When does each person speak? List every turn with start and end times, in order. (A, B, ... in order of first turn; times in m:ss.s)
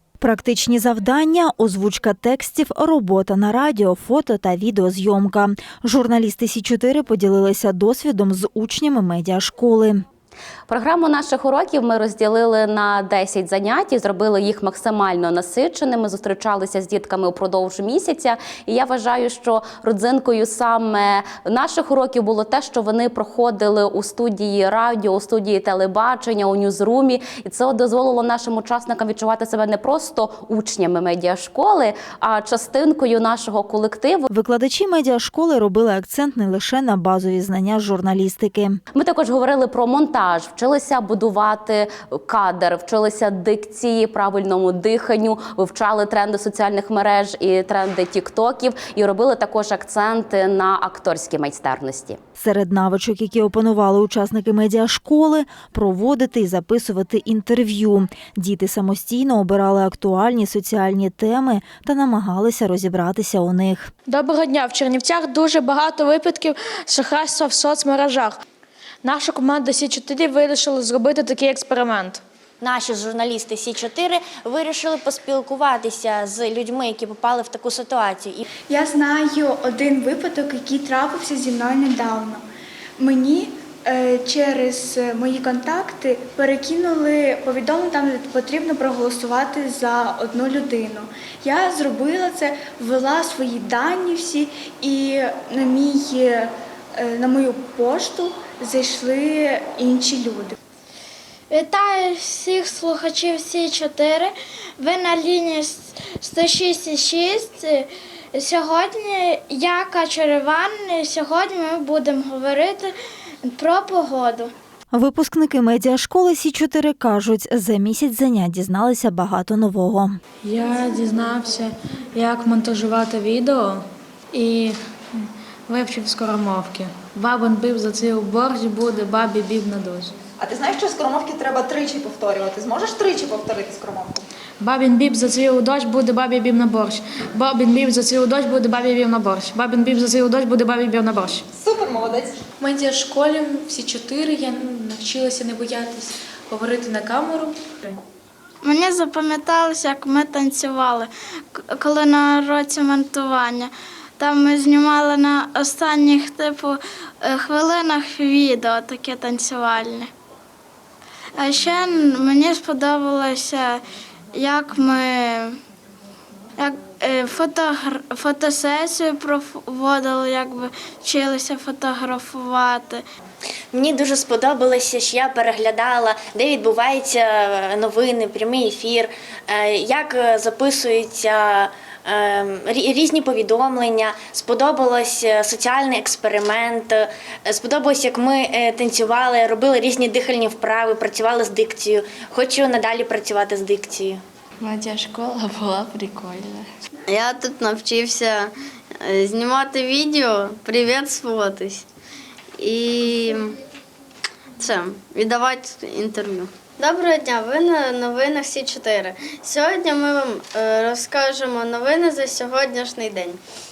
0:00.2-0:10.0 A
0:10.7-0:34.2 B
0:34.3-0:38.8 A
0:38.9-0:52.2 B
0:52.4-1:03.9 A
1:04.1-1:08.4 C
1:09.0-1:12.2 C
1:12.6-1:18.4 D
1:18.7-1:22.4 E
1:23.0-1:40.5 E
1:41.5-1:52.9 F
1:53.4-1:54.5 F
1:54.9-2:00.2 A
2:00.4-2:10.1 C
2:10.4-2:13.2 G
2:14.6-2:21.4 C
2:22.6-2:28.0 C
2:28.6-2:40.1 F
2:41.4-2:43.8 F
2:44.3-2:45.6 F
2:46.6-2:53.0 F
2:53.7-3:14.2 D
3:14.7-3:16.6 H
3:17.1-3:18.5 I
3:19.1-3:19.9 I
3:20.7-3:21.8 I
3:22.7-3:23.5 I
3:24.6-3:26.5 I
3:27.6-3:33.4 I